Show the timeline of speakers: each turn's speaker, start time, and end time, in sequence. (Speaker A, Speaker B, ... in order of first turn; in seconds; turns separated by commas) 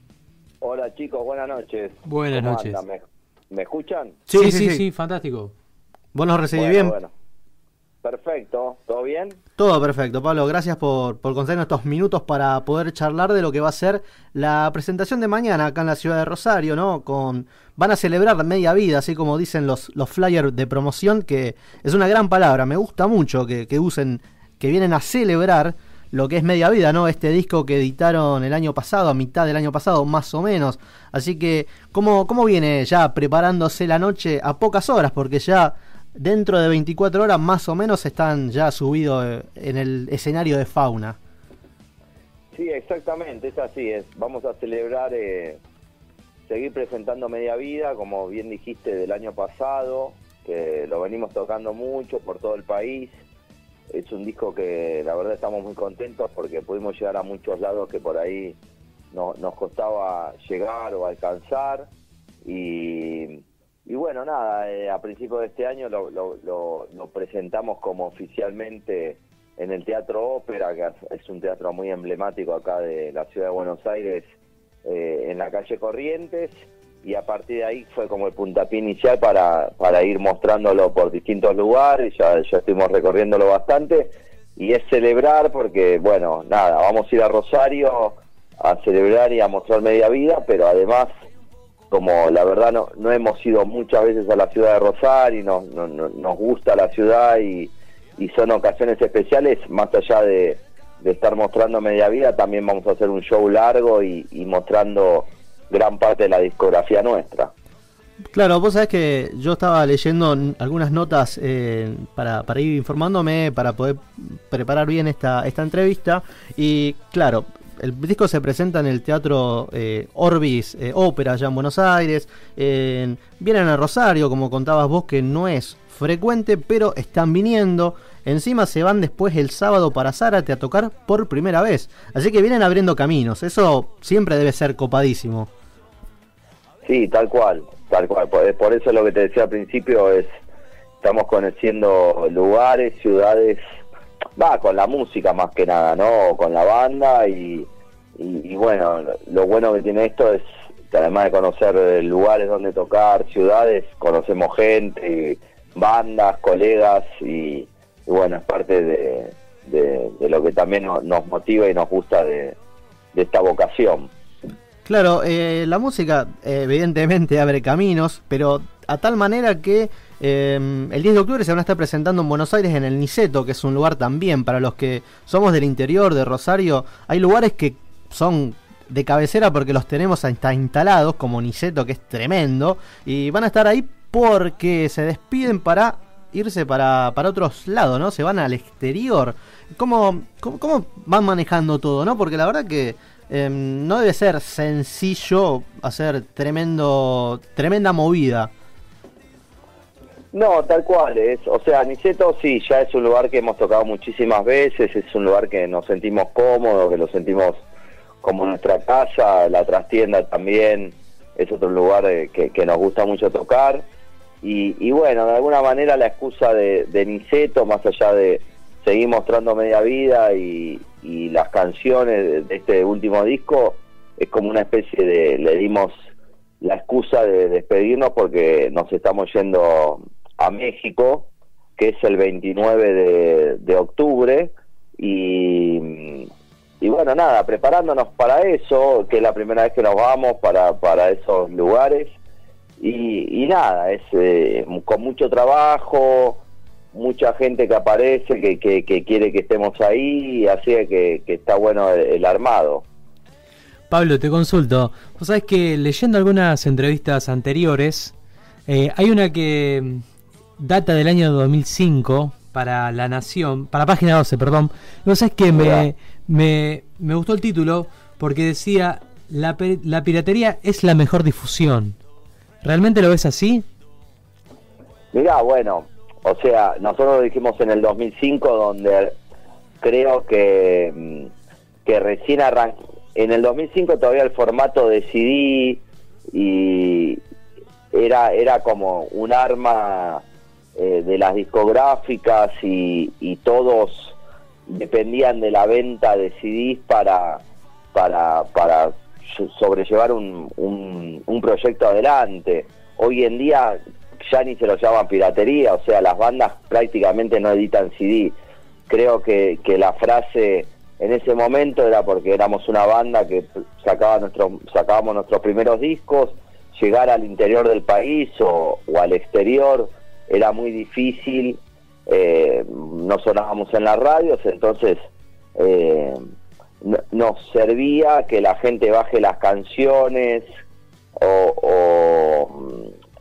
Speaker A: 0.6-4.2, Speaker B: 2.0-2.8, Speaker C: 4.3-4.8, Speaker B: 4.3-5.5, Speaker C: 6.1-7.0, Speaker A: 6.5-7.1, Speaker A: 8.0-9.4, Speaker C: 9.6-41.2, Speaker A: 42.5-45.6, Speaker A: 46.5-53.1, Speaker A: 53.9-58.6, Speaker A: 59.1-61.9, Speaker A: 62.5-74.2, Speaker A: 74.8-76.5, Speaker A: 77.0-91.1, Speaker A: 91.9-107.5, Speaker C: 108.3-135.5, Speaker A: 136.8-140.3, Speaker A: 141.0-143.6, Speaker A: 144.4-162.6, Speaker A: 163.1-164.1, Speaker C: 164.9-198.5, Speaker A: 200.3-207.6, Speaker A: 208.2-213.8, Speaker A: 214.4-225.9, Speaker A: 226.6-236.3, Speaker A: 236.8-242.2, Speaker A: 242.8-246.4, Speaker A: 246.9-252.9, Speaker B: 253.9-258.1, Speaker B: 258.7-260.0, Speaker B: 260.6-272.0, Speaker A: 265.5-265.9, Speaker B: 272.6-273.7, Speaker A: 275.1-279.1, Speaker A: 279.8-281.3, Speaker A: 281.9-285.8, Speaker A: 286.3-287.2, Speaker A: 287.9-290.2, Speaker A: 290.8-308.4, Speaker A: 308.9-325.0, Speaker A: 325.6-326.2, Speaker A: 326.8-330.5, Speaker A: 331.2-332.9